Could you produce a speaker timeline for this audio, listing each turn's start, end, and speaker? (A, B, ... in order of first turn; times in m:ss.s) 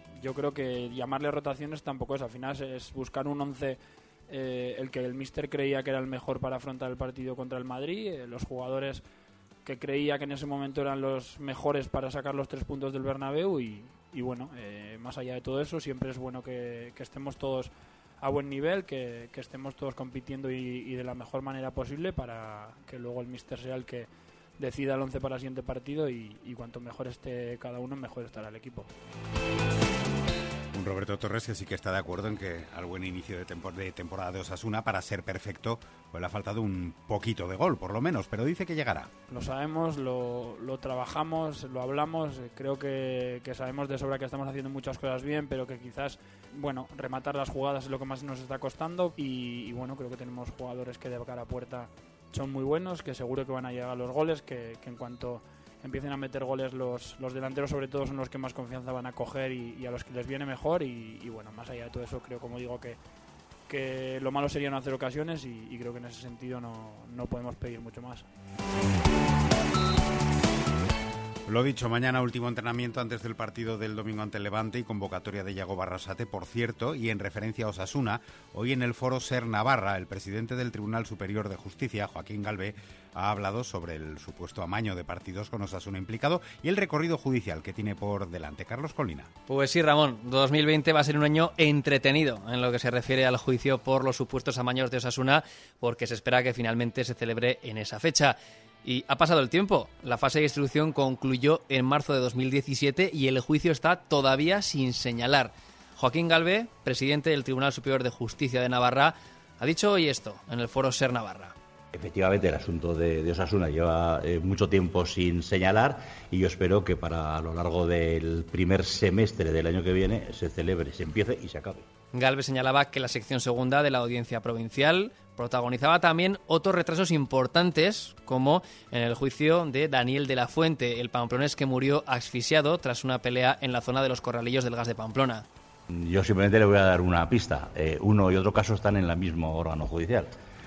0:00.2-0:09.0 A
0:09.7-0:24.1 A
0:24.6-0:28.9 A
0:30.7-0:39.1 B
0:39.3-1:03.0 A
1:03.7-1:08.2 A
1:11.5-1:29.3 B
1:29.5-1:51.5 C
1:52.0-2:01.8 D
2:02.1-2:15.4 C
2:15.9-2:20.3 D